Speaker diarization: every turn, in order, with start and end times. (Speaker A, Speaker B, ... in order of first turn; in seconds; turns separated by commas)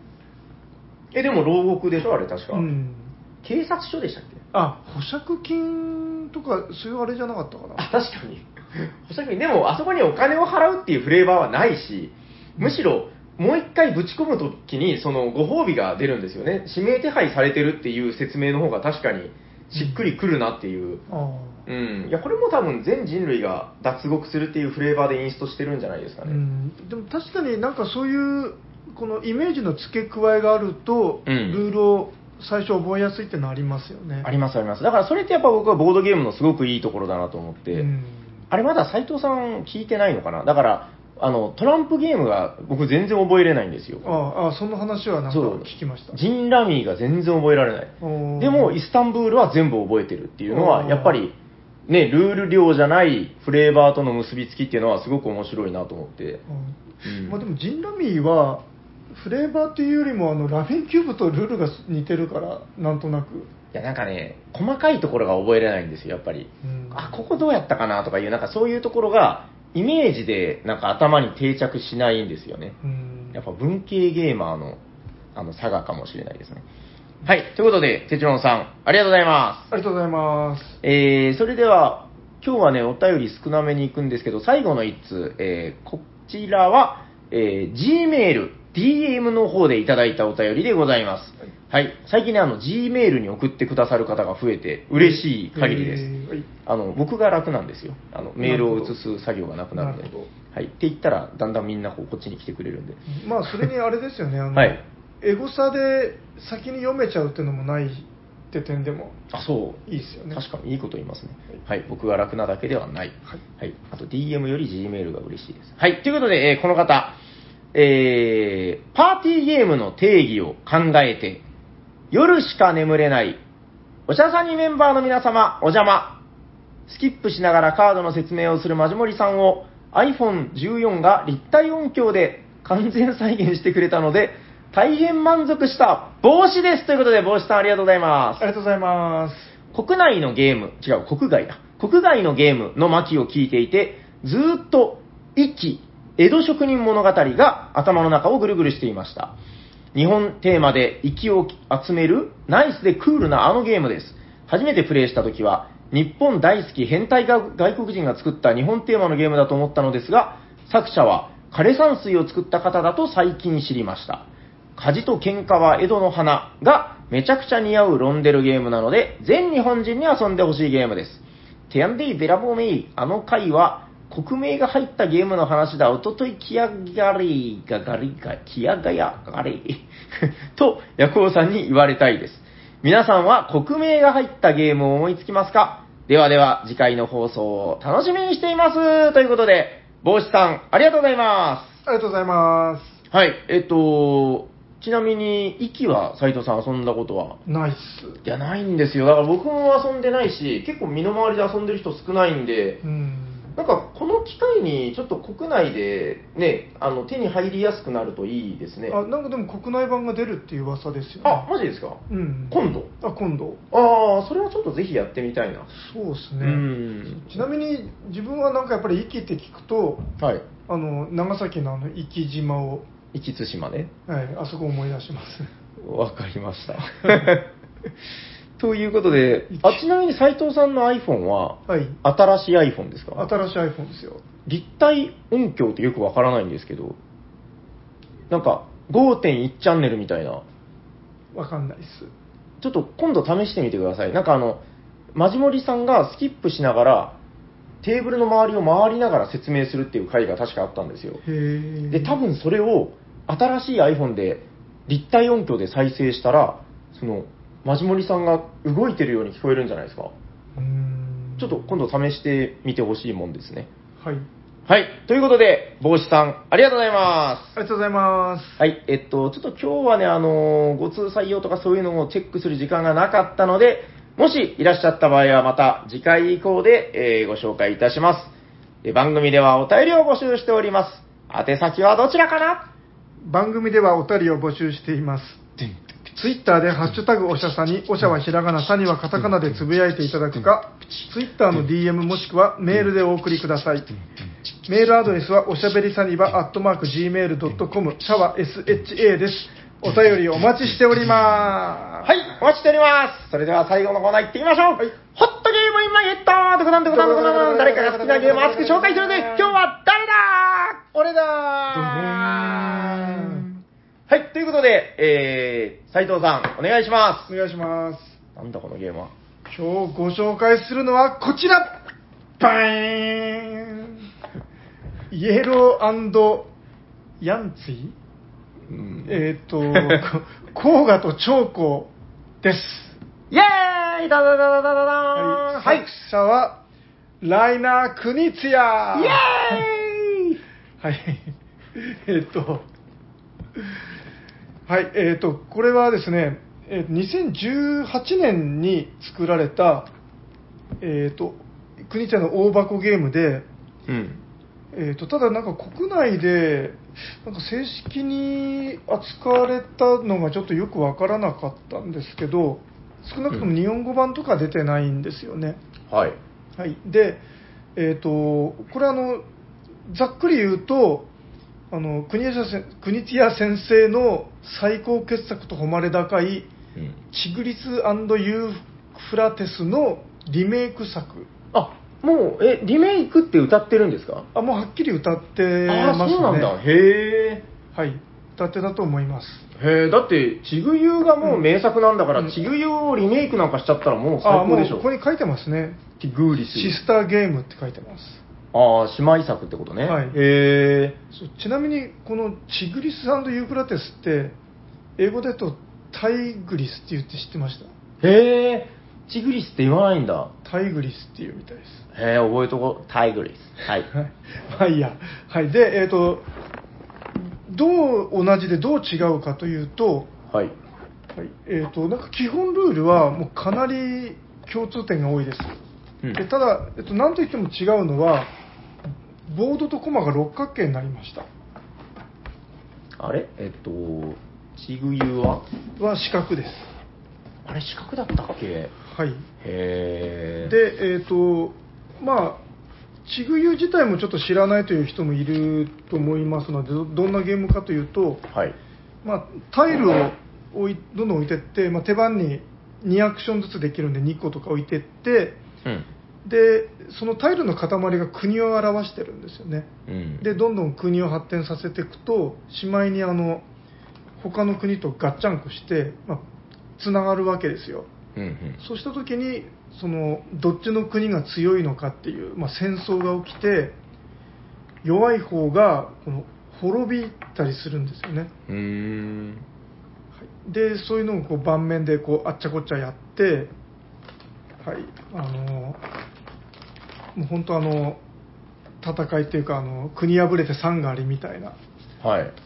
Speaker A: 1.1-2.7, Speaker B: 2.5-3.1, Speaker A: 3.4-4.4, Speaker B: 4.5-7.9, Speaker A: 7.8-21.0, Speaker B: 19.7-20.1, Speaker B: 21.1-21.6, Speaker A: 21.6-26.4, Speaker B: 26.2-34.3, Speaker A: 31.2-31.6, Speaker A: 34.2-37.9, Speaker B: 37.7-38.4, Speaker A: 38.5-44.0, Speaker B: 44.0-46.2, Speaker A: 45.3-51.3, Speaker B: 48.0-48.8, Speaker B: 50.5-51.2, Speaker A: 51.9-56.4, Speaker B: 56.5-63.5, Speaker A: 57.0-57.4, Speaker A: 63.7-72.8, Speaker B: 66.6-67.2, Speaker B: 72.8-73.4, Speaker A: 73.3-74.8, Speaker A: 75.3-76.6, Speaker A: 77.2-79.7, Speaker B: 79.7-80.8, Speaker A: 80.8-96.1, Speaker B: 95.0-96.5, Speaker A: 96.7-103.0, Speaker B: 98.4-99.0, Speaker B: 99.7-100.3, Speaker B: 103.1-109.2, Speaker A: 109.3-117.2, Speaker B: 109.9-110.4, Speaker A: 117.7-121.4, Speaker A: 122.1-123.4, Speaker A: 124.1-126.2, Speaker A: 126.9-138.4, Speaker B: 138.4-139.5, Speaker A: 139.7-149.3, Speaker A: 149.9-191.8, Speaker B: 191.8-193.0, Speaker A: 193.1-197.4, Speaker B: 197.4-198.2, Speaker A: 198.2-202.8, Speaker B: 202.8-203.6, Speaker A: 203.6-209.0, Speaker B: 208.9-211.5, Speaker A: 211.2-212.9, Speaker B: 212.1-213.6, Speaker A: 213.7-215.7, Speaker B: 215.7-220.1, Speaker A: 216.4-217.4, Speaker A: 220.2-220.5, Speaker B: 220.7-222.8, Speaker A: 223.1-223.9, Speaker B: 224.1-225.5, Speaker A: 225.8-227.5, Speaker A: 228.6-233.3, Speaker B: 229.5-229.8, Speaker B: 231.7-232.0, Speaker B: 233.2-234.2, Speaker A: 234.4-237.0, Speaker A: 238.3-240.4, Speaker B: 241.3-242.1, Speaker A: 242.6-244.6, Speaker A: 245.1-247.2, Speaker A: 247.8-251.2, Speaker B: 251.2-252.2, Speaker A: 251.9-260.1, Speaker B: 260.6-261.7, Speaker A: 261.4-263.7, Speaker B: 264.0-264.3, Speaker A: 264.7-267.5, Speaker B: 267.6-268.6, Speaker A: 268.6-278.3, Speaker A: 278.8-282.7, Speaker B: 283.2-285.5, Speaker B: 286.1-293.9, Speaker B: 294.6-302.2, Speaker A: 302.0-317.3, Speaker B: 306.9-309.6, Speaker B: 311.7-313.5, Speaker B: 317.3-318.1, Speaker A: 318.4-319.1, Speaker B: 319.4-321.7, Speaker B: 322.4-324.0, Speaker B: 325.1-326.5, Speaker B: 327.2-327.9, Speaker A: 328.7-330.0, Speaker B: 329.0-331.9, Speaker B: 332.4-333.0, Speaker A: 333.3-335.9, Speaker B: 335.1-336.6, Speaker B: 337.2-339.6, Speaker A: 338.9-340.4, Speaker B: 340.8-342.6, Speaker B: 344.7-349.9, Speaker B: 350.8-353.4, Speaker A: 353.9-354.2, Speaker B: 354.7-365.6, Speaker A: 365.9-366.2, Speaker B: 366.6-367.2, Speaker B: 367.8-369.2, Speaker B: 369.9-371.1, Speaker B: 371.7-376.5, Speaker B: 377.1-381.3, Speaker A: 381.5-384.3, Speaker B: 384.3-386.5, Speaker A: 385.7-387.4, Speaker B: 387.7-389.4, Speaker A: 389.6-394.8, Speaker B: 392.1-392.4, Speaker B: 394.2-395.8, Speaker A: 396.0-396.8, Speaker B: 396.5-398.2, Speaker A: 398.5-401.0, Speaker B: 399.8-400.2, Speaker B: 401.1-404.4, Speaker B: 405.0-407.7, Speaker A: 408.0-410.3, Speaker B: 410.4-411.8, Speaker A: 411.9-413.9, Speaker B: 413.9-416.2, Speaker B: 417.2-420.1, Speaker A: 420.3-420.5, Speaker B: 421.1-425.6, Speaker B: 426.1-428.3, Speaker B: 429.3-431.3, Speaker A: 433.0-435.4, Speaker B: 435.8-436.7, Speaker A: 437.4-438.7, Speaker B: 438.8-439.3, Speaker A: 439.4-440.5, Speaker B: 440.4-442.4, Speaker B: 443.1-448.3, Speaker B: 449.0-455.4, Speaker B: 456.2-459.7, Speaker A: 459.9-460.2, Speaker B: 460.2-463.4, Speaker B: 464.2-466.2, Speaker B: 466.8-467.9, Speaker A: 468.1-468.6, Speaker B: 468.6-473.8, Speaker B: 474.8-478.3, Speaker A: 478.5-479.4, Speaker B: 480.2-483.5, Speaker B: 484.6-485.8, Speaker B: 487.1-488.0, Speaker B: 488.8-491.6, Speaker A: 492.0-492.3